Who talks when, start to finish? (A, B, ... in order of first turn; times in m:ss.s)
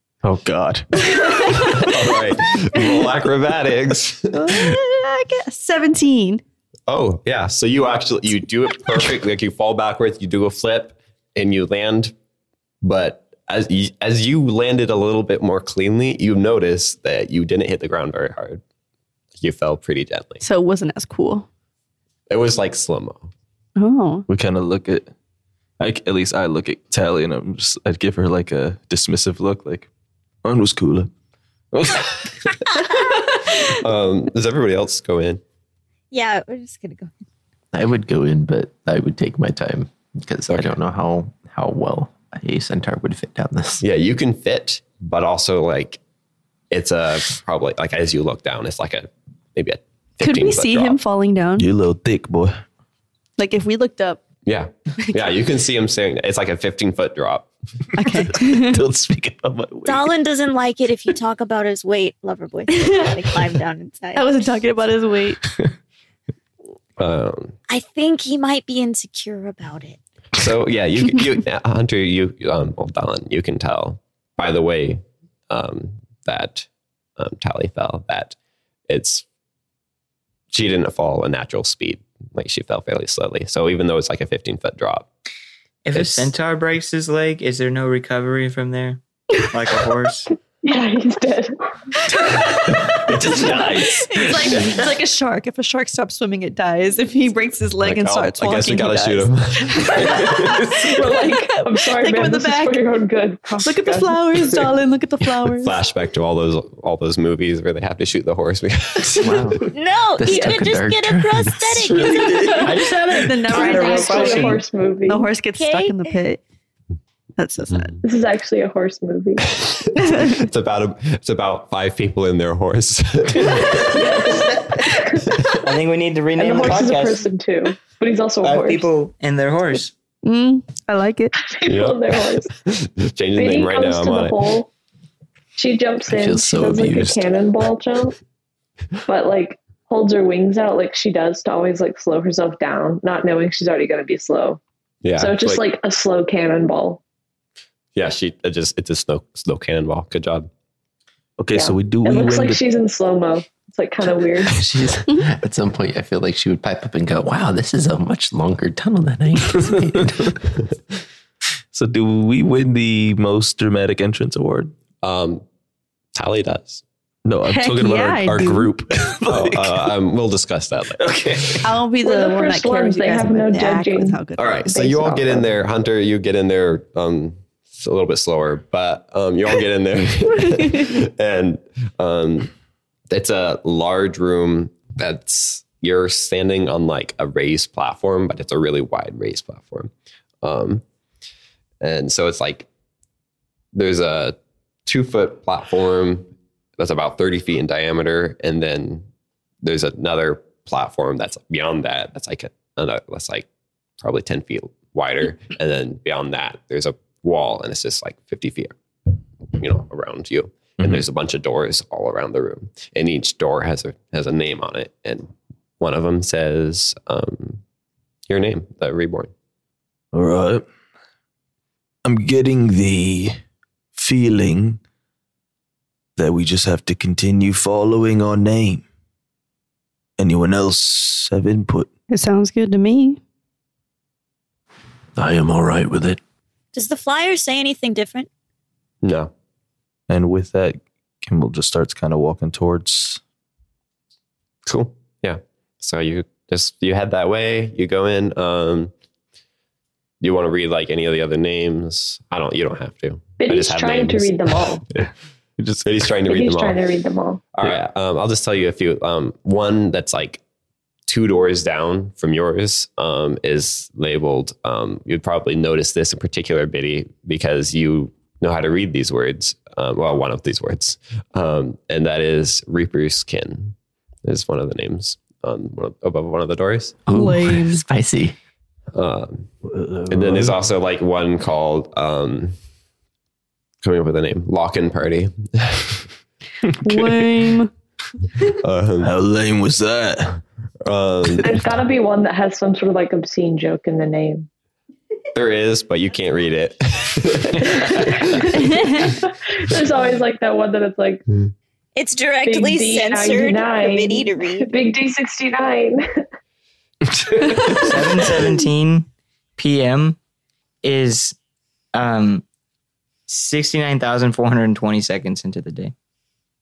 0:00.2-0:02.0 A
0:01.2-0:01.9 B
0:01.5-0:04.7 C
0:04.3-0:06.4 B
0:06.9-0:12.1 C
0:12.8-0:18.6 C
0:19.4-0:20.4 C
0:20.4-0:21.5 B
0:22.3-0:23.3 C
0:23.8-0:24.2 B
0:24.3-0:25.1 A
0:25.8-0:29.9 A
0:30.4-0:31.1 A
0:31.7-0:32.5 A
0:33.6-0:35.4 C
0:36.1-0:37.1 D
0:37.7-0:43.8 E
0:43.8-0:46.0 C
0:46.7-0:51.0 C
0:50.2-0:51.7 B
0:51.6-0:52.6 A
0:53.4-0:54.2 B
0:54.4-0:57.5 C
0:58.0-0:58.8 B
0:58.0-1:00.1 A
0:59.8-1:04.6 D
1:02.7-1:03.6 B
1:04.1-1:05.4 B
1:07.0-1:07.6 C
1:07.7-1:10.0 D
1:10.3-1:16.7 C
1:17.2-1:18.3 C
1:18.9-1:19.2 C
1:20.5-1:25.1 C
1:25.8-1:30.3 F
1:25.9-1:26.3 C
1:30.6-1:31.9 G
1:32.0-1:42.8 B
1:32.9-1:33.7 C
1:32.9-1:34.7 A
1:37.8-1:40.2 C
1:40.0-1:44.2 G
1:43.6-1:45.8 B
1:45.6-1:49.5 C
1:49.2-1:49.6 E
1:49.6-1:52.5 D
1:50.2-1:51.9 E
1:51.8-1:52.7 A
1:52.1-1:56.4 B
1:52.6-1:54.6 F
1:53.5-1:55.3 G
1:55.5-1:56.2 D
1:57.4-1:58.0 B
1:57.7-1:57.9 C
1:58.0-1:59.5 G
1:59.6-2:04.0 C
2:00.0-2:00.4 B
2:03.8-2:05.4 G
2:05.6-2:07.2 F
2:06.4-2:08.9 G
2:08.4-2:09.9 F
2:10.2-2:11.3 B
2:11.4-2:12.5 G
2:11.6-2:14.5 C
2:13.4-2:14.7 G
2:15.6-2:18.2 G
2:16.0-2:17.3 E
2:19.0-2:24.6 G
2:25.0-2:25.6 C
2:25.2-2:27.0 G
2:27.9-2:30.5 C
2:31.4-2:32.6 A
2:31.5-2:34.6 G
2:34.4-2:40.4 E
2:39.6-2:40.1 A
2:41.7-2:44.7 A
2:45.0-2:45.4 C
2:46.1-2:46.8 C
2:47.2-2:49.9 A
2:47.5-2:48.7 B
2:49.2-2:51.6 C
2:51.0-2:51.8 A
2:51.6-2:54.7 B
2:52.0-2:55.5 G
2:54.4-3:02.5 C
3:00.3-3:00.8 B
3:03.1-3:09.9 C
3:10.4-3:10.8 C
3:11.8-3:12.7 C
3:13.7-3:19.0 C
3:19.6-3:23.5 C
3:24.0-3:28.7 C
3:29.5-3:37.6 C
3:30.8-3:31.0 A
3:38.3-3:39.3 C
3:40.1-3:40.6 A
3:42.0-3:43.4 A
3:43.9-3:44.8 A
3:46.2-3:48.8 A
3:50.2-3:51.9 A
3:52.1-3:53.2 B
3:55.2-3:56.2 E
3:56.7-3:58.3 D
3:59.0-3:59.3 C
4:00.1-4:03.2 A
4:04.6-4:08.9 C
4:10.2-4:14.6 C
4:13.4-4:14.8 G
4:14.9-4:16.1 A
4:15.8-4:16.8 C
4:16.3-4:17.4 G
4:17.5-4:20.4 C
4:21.1-4:37.0 C
4:37.1-4:38.3 E
4:37.1-4:37.8 B
4:38.9-4:39.5 C
4:39.6-4:40.6 A
4:40.1-4:42.5 C
4:43.8-4:46.0 C
4:46.7-4:47.6 A
4:46.8-4:47.7 B
4:48.6-4:49.1 C
4:49.0-4:50.4 A
4:50.8-4:51.5 C
4:51.4-4:54.5 G
4:55.3-4:58.4 C
4:58.0-4:58.4 G
4:58.7-4:58.9 B
4:59.0-5:01.2 G
5:02.0-5:04.7 D
5:02.4-5:06.0 G
5:07.1-5:08.0 A
5:07.7-5:10.2 F
5:10.8-5:11.4 F
5:11.9-5:12.4 F
5:13.3-5:15.9 F